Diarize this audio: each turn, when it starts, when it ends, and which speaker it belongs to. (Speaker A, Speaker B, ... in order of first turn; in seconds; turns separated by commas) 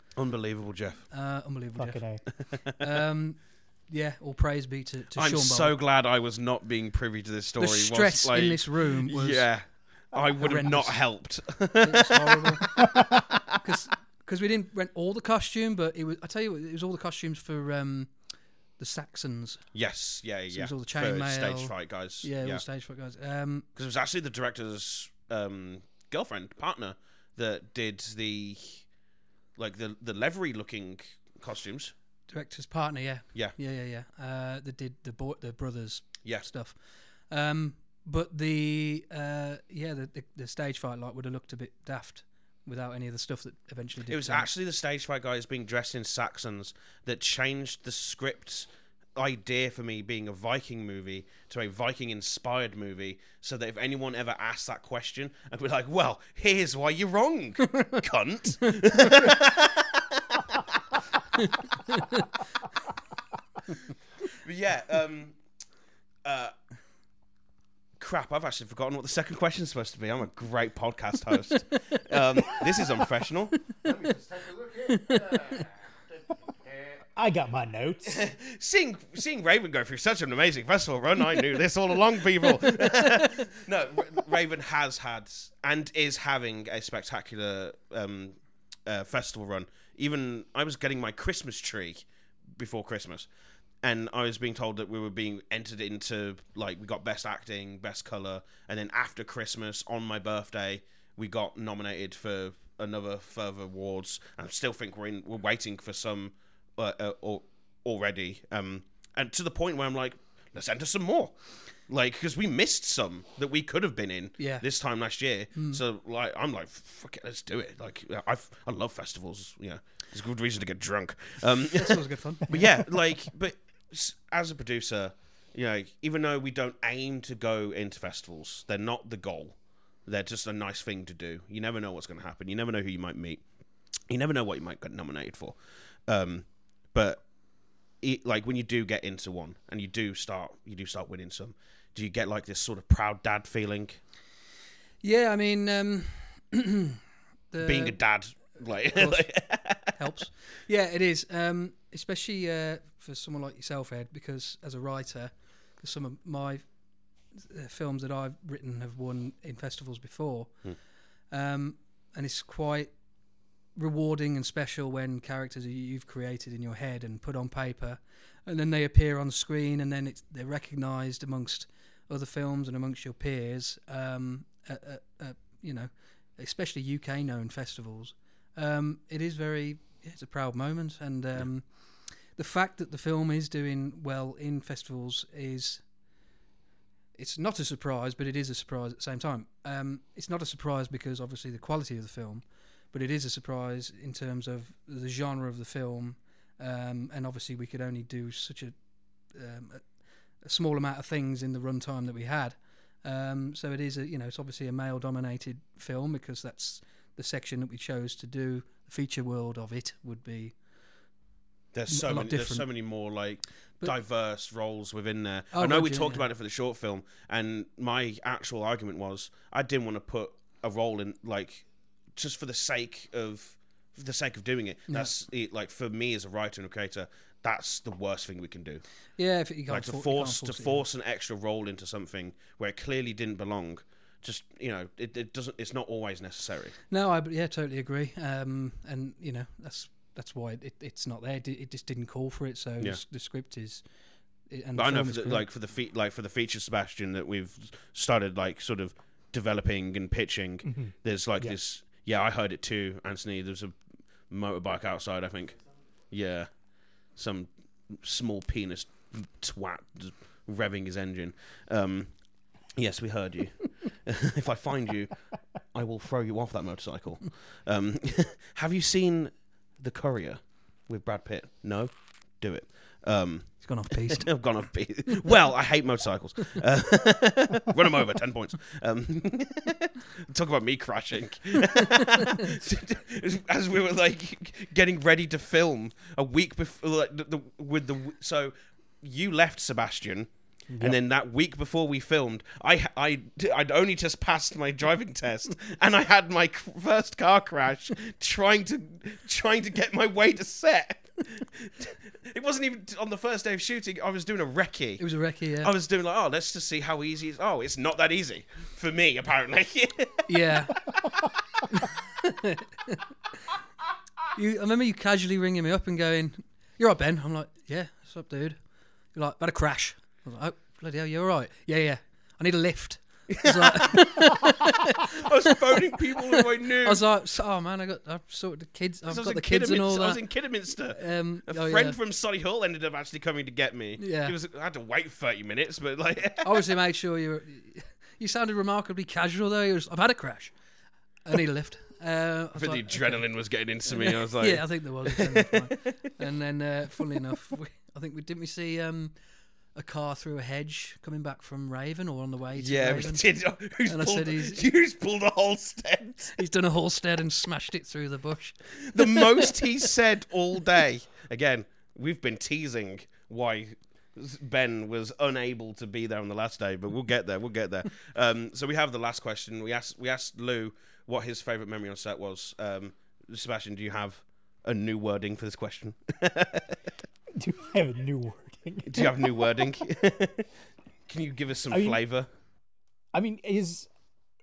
Speaker A: 0.1-1.0, Speaker B: 1.1-2.0, Speaker C: 1.8-2.2, Speaker B: 2.8-5.7, Speaker A: 5.2-13.2, Speaker B: 7.6-9.5, Speaker B: 10.2-11.0, Speaker B: 11.8-12.8, Speaker B: 13.6-18.1, Speaker B: 18.8-19.6, Speaker A: 19.7-22.6, Speaker B: 20.5-23.7, Speaker A: 23.8-28.9, Speaker A: 29.6-31.9, Speaker B: 32.3-44.5, Speaker A: 44.1-60.6, Speaker B: 61.4-62.3, Speaker A: 64.3-65.3, Speaker A: 66.2-66.5, Speaker A: 68.0-75.6, Speaker B: 74.9-75.6, Speaker C: 77.2-78.2, Speaker A: 78.0-92.0, Speaker A: 92.6-93.3, Speaker A: 93.8-111.3, Speaker A: 111.9-133.4, Speaker B: 114.4-114.6, Speaker B: 115.5-115.8, Speaker B: 121.7-122.8, Speaker A: 134.1-137.2, Speaker A: 138.0-144.0, Speaker B: 145.0-147.0, Speaker B: 147.5-148.0, Speaker A: 147.6-149.9, Speaker B: 148.9-156.6, Speaker B: 157.3-160.6, Speaker B: 161.3-162.9, Speaker B: 163.8-185.8, Speaker B: 187.2-198.7, Speaker B: 199.3-199.8, Speaker B: 200.4-210.5, Speaker A: 211.7-228.8, Speaker B: 211.9-212.7, Speaker B: 215.5-216.2, Speaker B: 229.2-230.8, Speaker A: 229.7-236.8, Speaker B: 236.9-243.8, Speaker B: 244.5-245.4, Speaker A: 244.7-253.7, Speaker C: 250.6-251.5, Speaker A: 254.3-255.6, Speaker A: 256.1-256.5, Speaker A: 257.1-262.1, Speaker A: 262.7-265.1, Speaker A: 265.7-290.3, Speaker B: 273.6-274.3, Speaker B: 281.9-282.4, Speaker C: 290.7-291.0, Speaker A: 290.8-305.0, Speaker B: 305.0-305.7, Speaker A: 305.6-310.5, Speaker B: 310.3-310.8, Speaker B: 311.7-313.0, Speaker B: 314.3-318.6, Speaker B: 319.1-325.1, Speaker A: 323.3-327.0, Speaker B: 326.2-330.2, Speaker A: 329.1-336.7, Speaker B: 330.9-332.0, Speaker B: 334.0-334.3, Speaker B: 336.4-340.5, Speaker B: 341.2-343.2, Speaker A: 342.6-345.9, Speaker B: 343.9-349.1, Speaker B: 349.7-353.2, Speaker A: 352.6-356.3, Speaker B: 353.9-354.6, Speaker B: 356.3-359.5, Speaker A: 358.8-376.8, Speaker C: 377.3-379.4, Speaker A: 378.9-380.5, Speaker A: 381.1-382.3, Speaker C: 381.7-382.0, Speaker C: 383.1-383.9